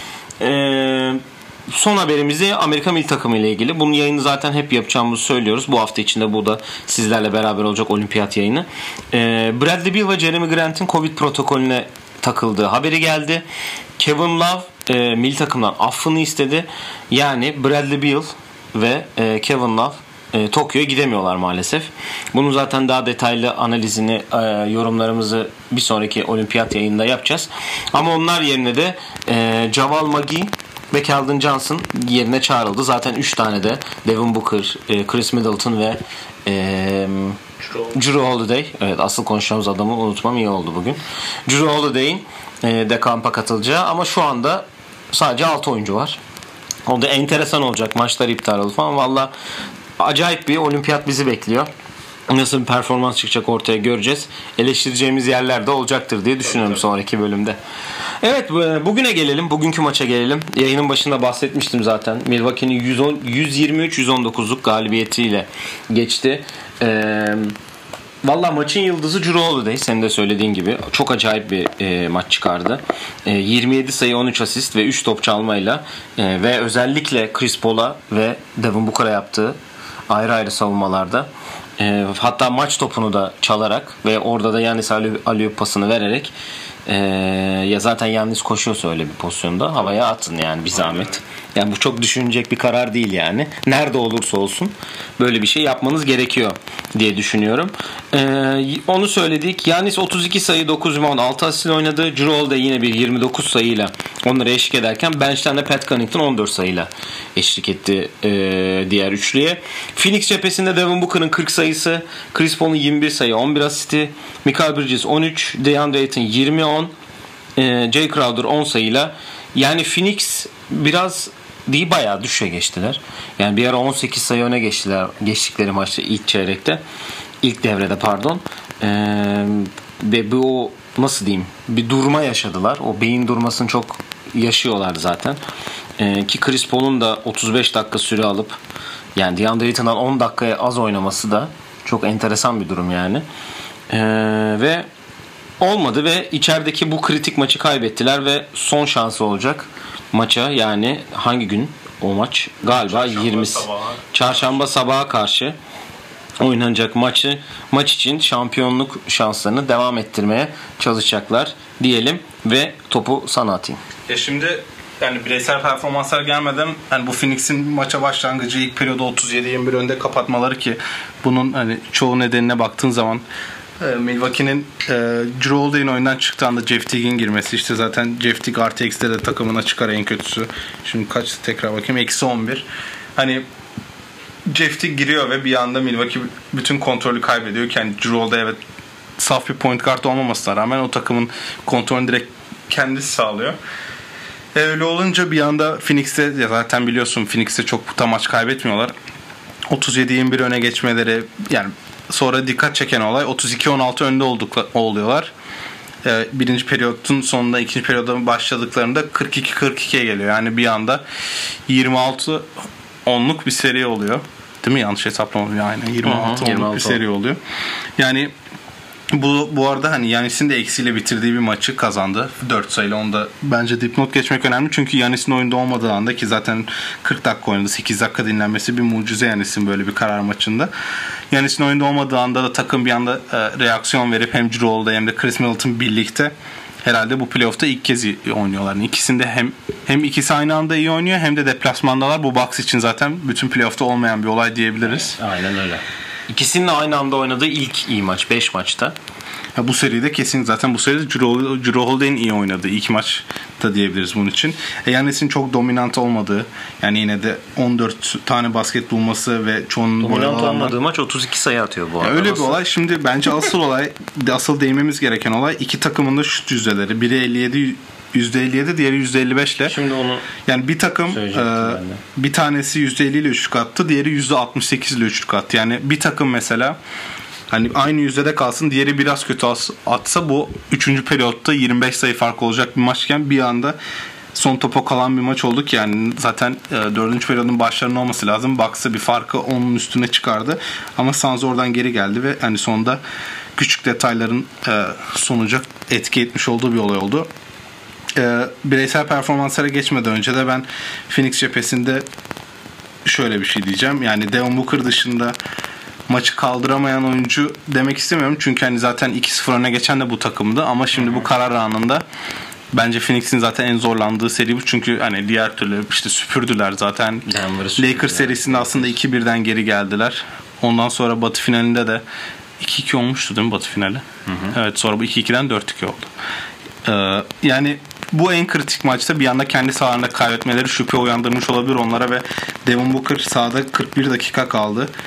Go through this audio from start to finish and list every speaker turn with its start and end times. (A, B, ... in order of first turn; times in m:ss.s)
0:00.4-0:13.4 A
0:14.0-0:37.4 A
0:37.6-0:38.0 B
0:37.9-0:46.2 A
0:46.9-0:49.3 A
0:50.0-0:51.7 A
0:52.3-0:57.6 A
0:56.5-0:56.8 B
0:58.2-1:07.6 A
1:08.2-1:19.6 A
1:20.1-1:26.3 A
1:26.9-1:56.9 A
1:30.7-1:31.1 B
1:57.6-2:06.8 A
2:07.4-2:15.4 A
2:16.0-2:18.6 A
2:19.2-2:23.2 A
2:23.9-2:24.9 A
2:25.6-2:35.6 A
2:32.7-2:34.6 B
2:36.4-2:43.8 A
2:44.1-2:53.2 B
2:53.8-3:02.7 B
3:03.2-3:03.4 B
3:04.5-3:08.6 B
3:09.2-3:13.6 B
3:14.5-3:18.9 B
3:19.7-3:25.3 B
3:26.0-3:31.0 B
3:31.7-3:32.5 B
3:33.1-3:37.4 B
3:36.0-3:37.0 A
3:38.0-3:38.3 B
3:39.1-3:50.7 B
3:51.3-4:05.2 B
4:04.9-4:09.0 A
4:09.6-4:20.8 B
4:20.0-4:22.6 A
4:22.0-4:29.8 B
4:29.7-4:30.3 A
4:30.4-4:36.8 B
4:31.1-4:32.0 A
4:37.5-4:43.8 B
4:44.3-4:53.0 B
4:53.6-4:57.3 B
4:58.2-5:02.0 B
5:03.0-5:05.4 B
5:06.1-5:12.0 B
5:12.7-5:22.0 B
5:17.3-5:19.0 A
5:22.6-5:26.1 B
5:24.3-5:24.6 A
5:26.8-5:34.9 B